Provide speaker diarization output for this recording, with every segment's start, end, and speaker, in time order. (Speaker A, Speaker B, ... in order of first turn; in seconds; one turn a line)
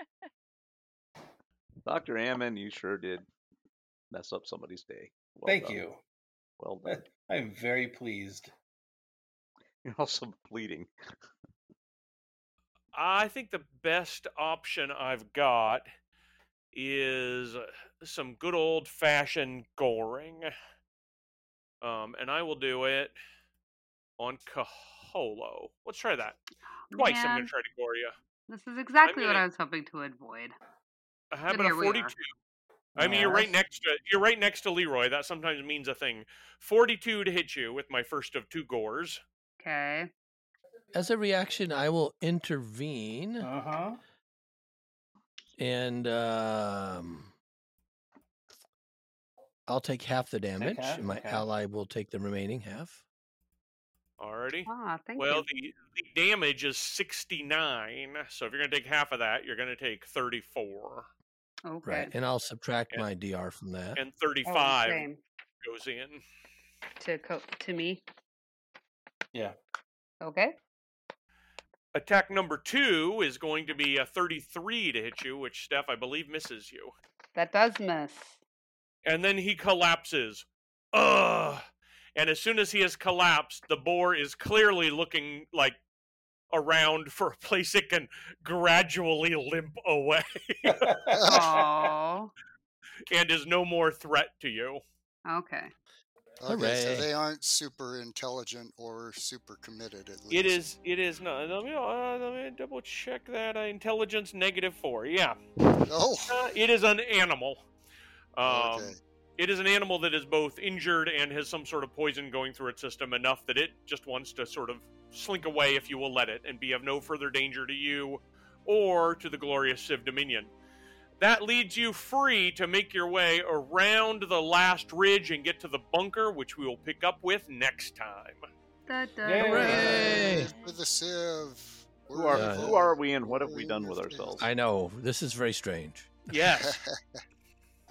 Speaker A: 1.8-3.3
Speaker A: 4.1-5.8
Speaker B: 5.5-6.0
Speaker A: 6.6-7.0
Speaker B: 6.8-8.5
Speaker A: 9.8-10.9
Speaker C: 12.9-15.9
Speaker C: 16.7-20.5
Speaker C: 21.8-23.1
Speaker C: 24.2-26.4
Speaker D: 26.9-27.5
Speaker C: 26.9-28.1
Speaker D: 28.5-30.5
Speaker C: 29.0-29.4
Speaker C: 31.3-32.3
Speaker D: 31.5-32.1
Speaker C: 33.0-39.2
Speaker B: 33.0-33.5
Speaker D: 33.1-33.4
Speaker D: 39.6-40.1
Speaker E: 40.9-43.5
Speaker B: 43.4-44.0
Speaker E: 45.6-47.3
Speaker E: 49.7-53.0
Speaker B: 50.6-51.5
Speaker C: 54.2-61.1
Speaker D: 54.7-55.4
Speaker D: 61.6-62.1
Speaker E: 61.8-64.0
Speaker C: 64.0-65.1
Speaker D: 64.5-65.2
Speaker C: 65.6-66.2
Speaker D: 67.0-68.0
Speaker D: 70.2-70.5
Speaker C: 71.9-76.9
Speaker D: 77.3-78.4
Speaker C: 79.0-81.6
Speaker C: 82.2-85.8
Speaker C: 86.5-91.0
Speaker B: 90.7-91.5
Speaker F: 91.1-91.6
Speaker D: 91.3-92.3
Speaker C: 93.1-94.8
Speaker D: 95.3-95.7
Speaker F: 96.4-100.6
Speaker E: 96.5-97.1
Speaker C: 100.3-105.4
Speaker F: 105.8-106.4
Speaker C: 106.3-107.6
Speaker C: 108.3-120.5
Speaker F: 108.4-109.0
Speaker C: 121.2-128.4
Speaker D: 128.9-130.4
Speaker B: 129.2-130.0
Speaker E: 129.4-130.5
Speaker A: 129.6-130.0
Speaker F: 129.7-134.4
Speaker A: 132.1-134.5
Speaker E: 132.3-132.7
Speaker E: 134.4-136.3
Speaker C: 136.3-136.8
Speaker F: 136.6-137.2